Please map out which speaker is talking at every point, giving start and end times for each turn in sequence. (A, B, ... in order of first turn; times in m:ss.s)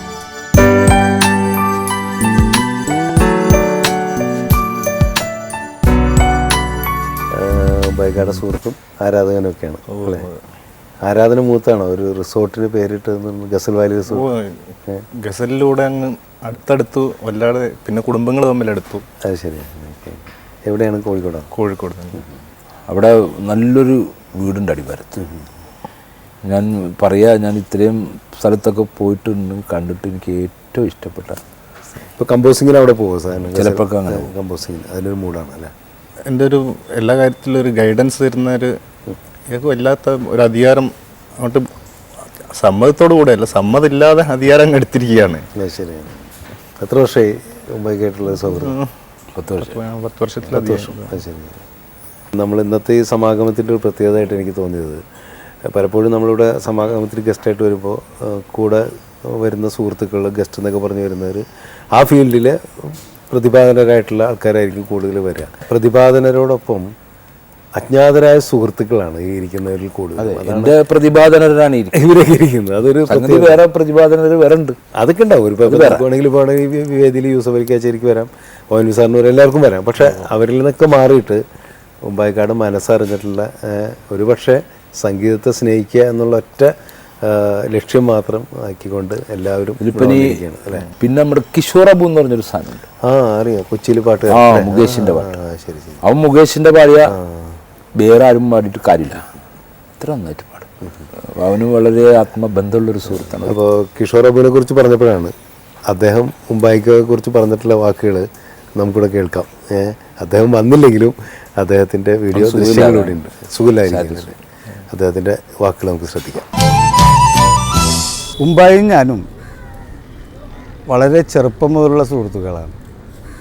0:07.3-0:10.3 A
0:09.9-0:10.4 B
0:11.0-0:14.3 A
0:14.1-0:19.0 B
0:19.2-0:21.5 A
0:21.5-0:22.2 B
0:22.9-0:25.2 C
0:26.4-0:31.4 C
0:32.2-0:35.7 A
0:33.5-0:34.3 C
0:36.2-0:38.8 B
0:39.5-0:41.7 B
0:42.4-0:45.5 B
0:45.6-0:46.2 A
0:46.8-0:48.8 A
0:48.5-0:48.9 B
0:49.3-0:49.7 C
0:49.6-0:51.2 B
0:50.4-0:51.6 A
0:52.3-0:55.0 A
0:55.6-1:06.9 A
1:07.7-1:10.8 A
1:10.2-1:11.9 C
1:11.9-1:13.6 A
1:13.1-1:14.8 C
1:14.9-1:21.4 A
1:15.6-1:16.0 C
1:22.0-1:26.7 A
1:27.2-1:30.9 A
1:29.8-1:30.4 C
1:31.0-1:32.8 C
1:33.0-1:36.0 A
1:34.3-1:35.3 C
1:36.0-1:37.2 C
1:37.1-1:37.6 A
1:38.0-1:39.2 C
1:40.0-1:40.7 C
1:41.2-1:43.6 C
1:43.4-1:45.3 A
1:45.9-1:54.4 A
1:52.3-1:53.2 C
1:53.9-1:54.2 C
1:54.9-1:56.4 A
1:58.4-1:59.2 D
2:00.9-2:02.8 D